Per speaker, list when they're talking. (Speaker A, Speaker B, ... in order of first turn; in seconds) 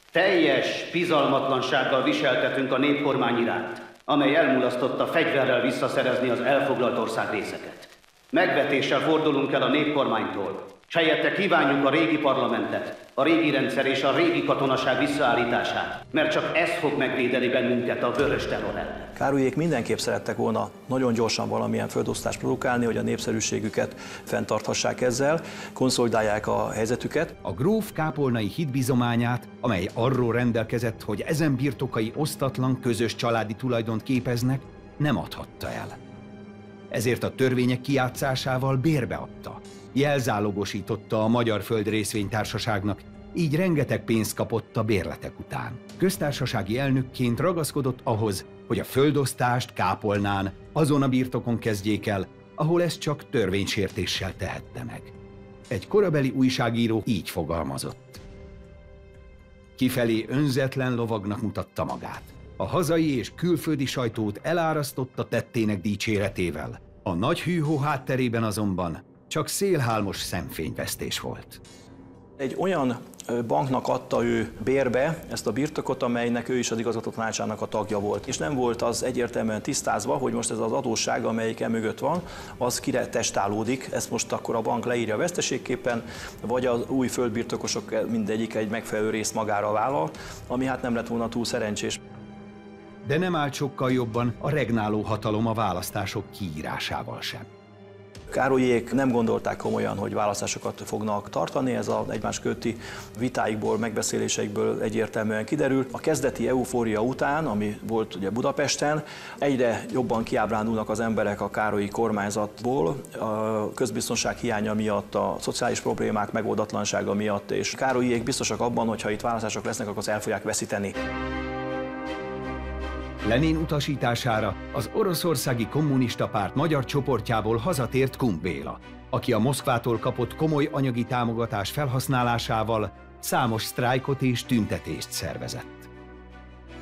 Speaker A: 0.1-19.1
Speaker B: 19.1-27.3, 72.4-92.0, 98.3-120.9
Speaker C: 27.4-36.0, 36.9-55.1, 55.7-58.2, 59.8-71.6, 93.0-97.5, 123.2-135.9